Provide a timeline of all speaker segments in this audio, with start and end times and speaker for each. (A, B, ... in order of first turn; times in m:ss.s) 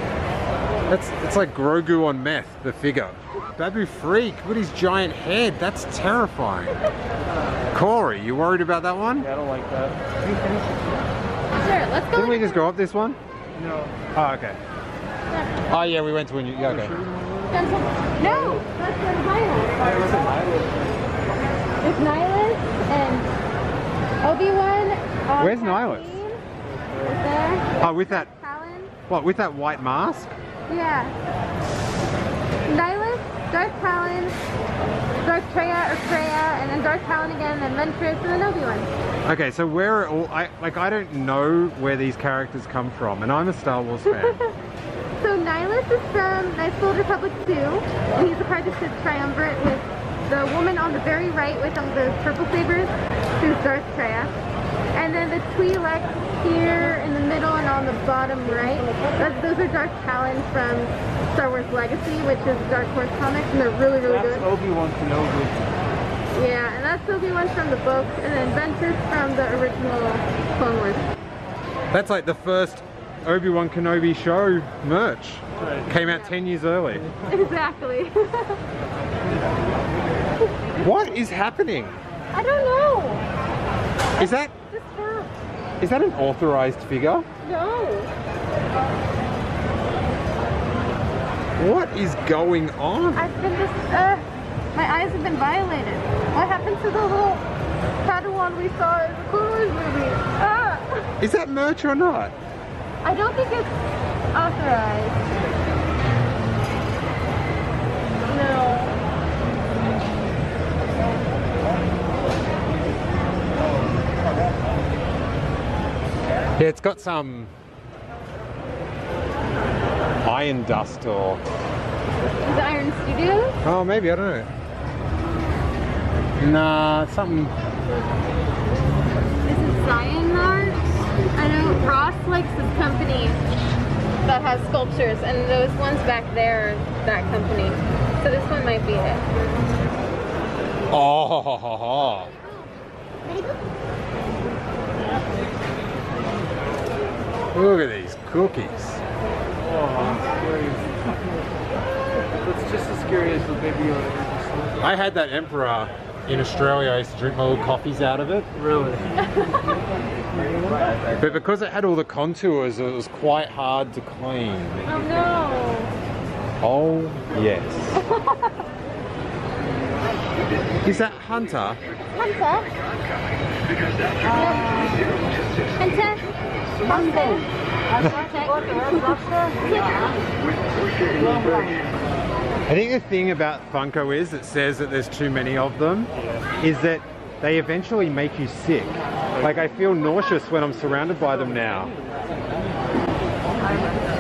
0:00.9-0:06.8 A
0:07.7-0:09.3 A
0:09.2-0:10.7 B
0:11.6-0:12.6 C
0:12.1-0:13.2 A
0:13.5-0:14.0 B
0:14.2-0:14.6 A
0:15.3-0:15.8 C
0:15.7-0:17.0 A
0:16.6-0:18.6 B
0:17.5-0:19.8 C
0:19.8-0:21.2 B
0:21.8-0:23.3 C
0:24.2-0:26.4 C
0:25.4-0:26.2 A
0:26.6-0:27.2 B
0:27.0-0:28.9 C
0:27.8-0:28.3 A
0:29.1-0:30.4 A
0:30.7-0:31.2 C
0:32.7-0:34.4 C
0:35.2-0:38.9 C
0:39.2-0:44.4 A
0:44.1-0:44.5 C
0:45.2-0:54.4 C
0:54.9-1:04.5 C
1:04.0-1:05.8 B
1:06.3-1:11.1 C
1:11.9-1:17.1 A
1:15.6-1:15.9 B
1:15.9-1:16.3 C
1:17.1-1:17.3 B
1:17.3-1:18.6 C
1:20.8-1:22.0 A
1:22.3-1:23.2 C
1:24.2-1:25.3 C
1:24.2-1:24.5 A
1:25.8-1:27.3 A
1:27.4-1:28.1 C
1:31.6-1:33.3 A
1:33.2-1:37.4 C
1:38.0-1:41.1 C
1:41.2-1:42.3 A
1:43.0-1:43.7 C
1:44.3-1:45.3 C
1:48.3-1:49.0 C
1:56.6-1:57.5 A
2:00.2-2:01.4 A
2:02.4-2:03.6 C
2:03.6-2:04.5 A
2:06.4-2:07.6 A
2:09.4-2:13.4 C
2:14.2-2:19.2 C
2:20.9-2:22.3 A
2:23.2-2:23.6 C
2:27.5-2:29.0 A
2:29.6-2:31.4 B
2:32.3-2:34.9 B
2:34.8-2:38.5 A
2:38.5-2:39.2 B
2:39.2-2:39.6 C
2:40.8-2:41.1 B
2:41.2-2:44.9 A
2:44.9-2:45.9 C
2:46.6-2:48.1 A
2:48.0-2:48.6 C
2:50.8-2:51.8 A
2:52.1-2:52.7 C
2:54.2-2:55.1 C
2:55.8-2:56.3 C
2:56.8-3:00.2 C
2:56.8-2:57.4 B
2:58.0-2:59.7 B
3:01.1-3:01.9 B
3:02.7-3:12.0 A
3:06.1-3:06.5 B
3:09.3-3:09.7 B
3:13.6-3:14.0 C